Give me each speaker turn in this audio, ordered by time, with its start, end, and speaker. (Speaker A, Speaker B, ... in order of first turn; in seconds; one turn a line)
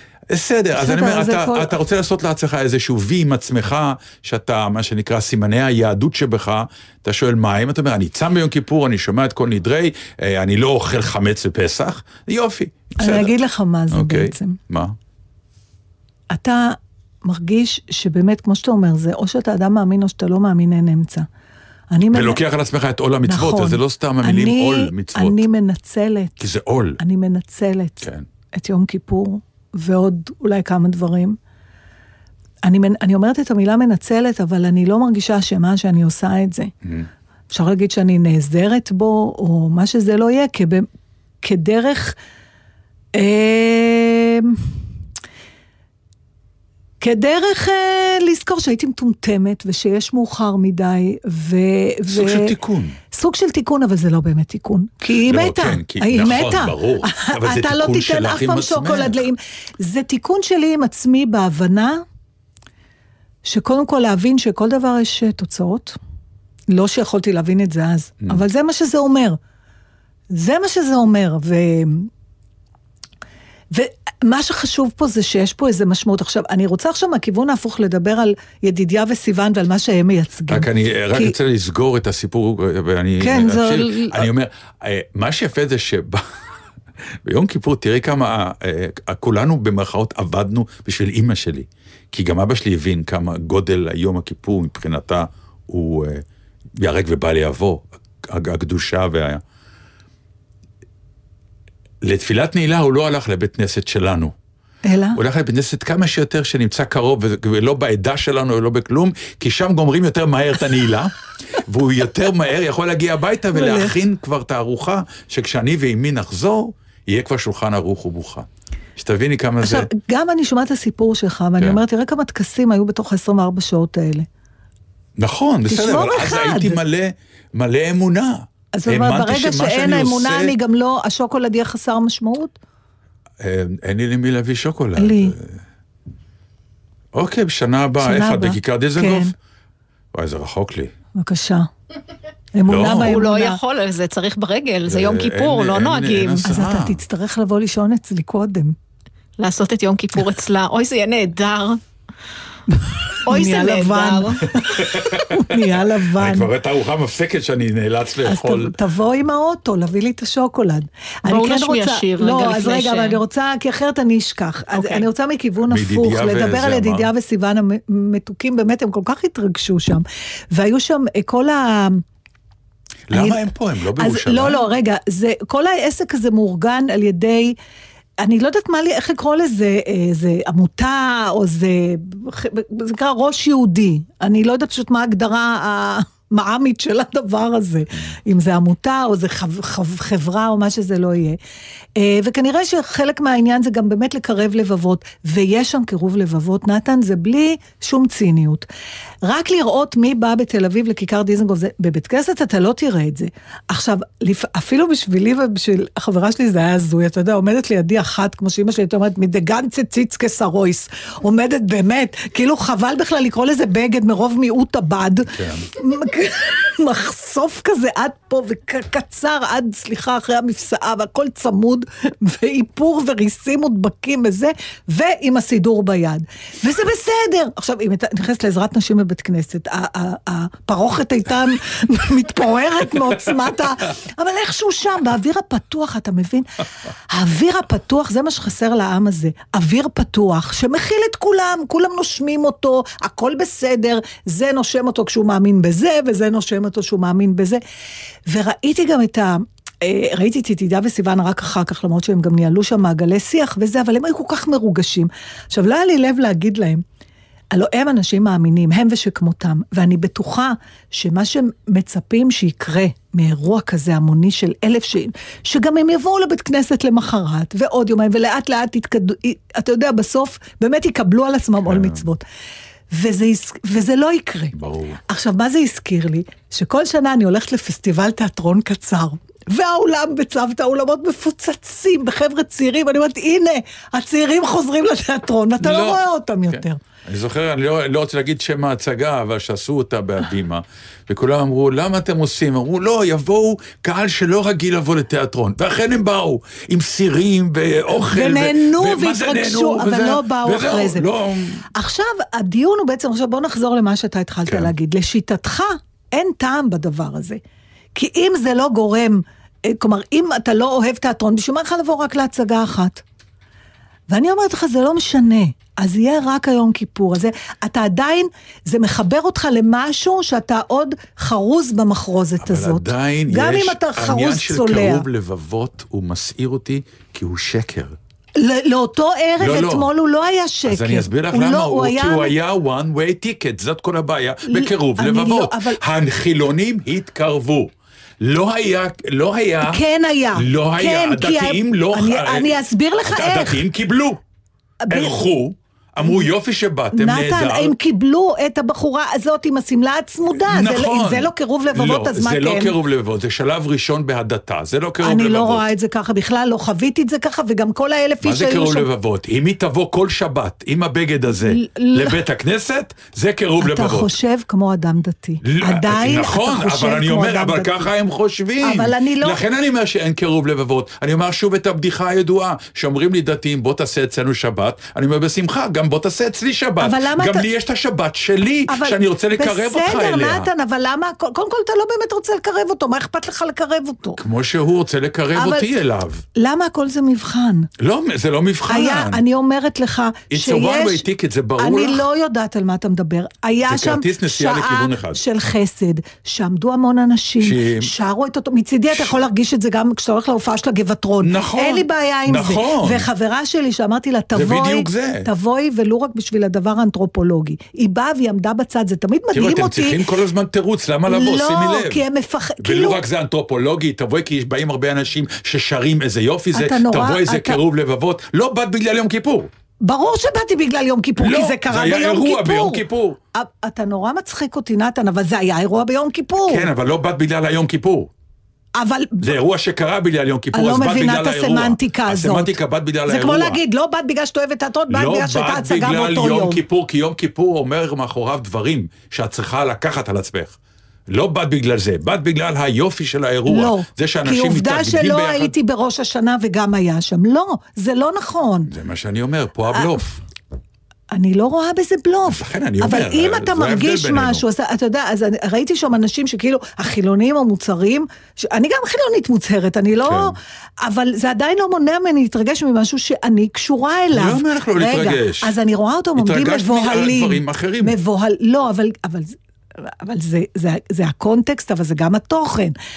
Speaker A: 0.3-13.3
Speaker B: 0.8-1.7
Speaker B: 13.0-14.6
Speaker A: 13.9-14.9
Speaker B: 16.3-21.3
Speaker B: 21.9-22.4
Speaker A: 22.1-25.5
Speaker B: 23.2-26.3
Speaker A: 26.4-27.0
Speaker B: 27.0-31.4
Speaker A: 28.0-28.3
Speaker B: 32.6-36.7
Speaker A: 36.8-37.1
Speaker B: 37.5-40.9
Speaker B: 41.4-42.1
Speaker B: 43.1-44.6
Speaker B: 47.0-52.5
Speaker A: 52.1-53.0
Speaker B: 53.1-62.0
Speaker A: 55.1-59.2
Speaker B: 63.4-66.0
Speaker B: 66.7-69.4
Speaker B: 70.3-72.1
Speaker B: 73.7-81.3
Speaker A: 80.5-86.2
Speaker B: 83.2-84.3
Speaker A: 87.2-96.2
Speaker A: 96.8-99.4
Speaker A: 102.0-104.3
Speaker B: 104.8-105.2
Speaker A: 105.1-119.9
Speaker B: 113.5-113.9
Speaker B: 119.6-124.3
Speaker A: 125.2-130.5
Speaker B: 125.7-126.8
Speaker B: 128.8-132.5
Speaker A: 133.4-135.6
Speaker B: 135.0-135.3
Speaker A: 137.1-139.3
Speaker B: 138.0-139.3
Speaker A: 140.1-140.9
Speaker B: 141.2-141.7
Speaker B: 142.6-143.6
Speaker A: 142.7-143.2
Speaker C: 142.8-146.5
Speaker A: 144.9-147.0
Speaker B: 146.4-148.7
Speaker C: 149.4-151.8
Speaker B: 152.8-156.5
Speaker C: 153.2-154.4
Speaker A: 154.6-158.7
Speaker B: 158.2-172.0
Speaker C: 161.2-163.2
Speaker C: 164.7-165.1
Speaker A: 165.7-167.1
Speaker A: 173.1-174.6
Speaker B: 173.1-177.5
Speaker B: 178.2-191.4
Speaker B: 191.9-198.7
Speaker B: 199.2-247.6
Speaker A: 215.3-215.7
Speaker B: 248.3-256.8
Speaker B: 257.5-272.2
Speaker A: 271.6-272.0
Speaker B: 272.9-274.6
Speaker A: 274.5-275.0
Speaker B: 275.1-286.8
Speaker A: 285.6-301.6
Speaker B: 297.9-301.1
Speaker B: 301.7-307.4
Speaker A: 304.5-304.7
Speaker B: 307.9-313.0
Speaker B: 314.1-325.1
Speaker A: 322.4-327.9
Speaker B: 328.4-332.3
Speaker A: 329.4-329.9
Speaker A: 330.6-339.8
Speaker B: 334.5-335.8
Speaker B: 339.6-343.6
Speaker A: 340.3-344.2
Speaker B: 344.9-345.2
Speaker A: 344.9-347.7
Speaker B: 346.9-352.7
Speaker A: 350.3-355.6
Speaker B: 355.0-358.9
Speaker A: 358.2-364.1
Speaker B: 361.3-362.2
Speaker B: 363.6-367.9
Speaker A: 365.4-380.5
Speaker B: 368.6-369.4
Speaker B: 376.8-377.4
Speaker B: 378.7-384.2
Speaker A: 384.1-386.2
Speaker B: 385.3-385.7
Speaker B: 386.4-387.7
Speaker A: 387.8-389.2
Speaker B: 388.7-391.0
Speaker A: 390.3-392.1
Speaker B: 391.6-410.0
Speaker A: 393.6-395.2
Speaker A: 397.4-397.9
Speaker A: 401.2-403.1
Speaker A: 404.3-405.3
Speaker A: 409.3-412.0
Speaker B: 411.1-413.0
Speaker A: 412.6-419.5
Speaker B: 416.5-417.6
Speaker B: 419.8-422.8
Speaker A: 421.2-423.2
Speaker B: 423.3-426.7
Speaker A: 426.5-428.1
Speaker B: 428.8-429.3
Speaker A: 429.2-433.6
Speaker B: 430.5-432.5
Speaker B: 433.1-436.6
Speaker A: 434.9-440.6
Speaker A: 441.1-445.5
Speaker B: 443.5-448.7
Speaker A: 448.7-450.2
Speaker B: 451.1-472.7
Speaker A: 452.3-454.4
Speaker A: 460.0-460.4
Speaker A: 464.1-465.5
Speaker A: 466.1-468.0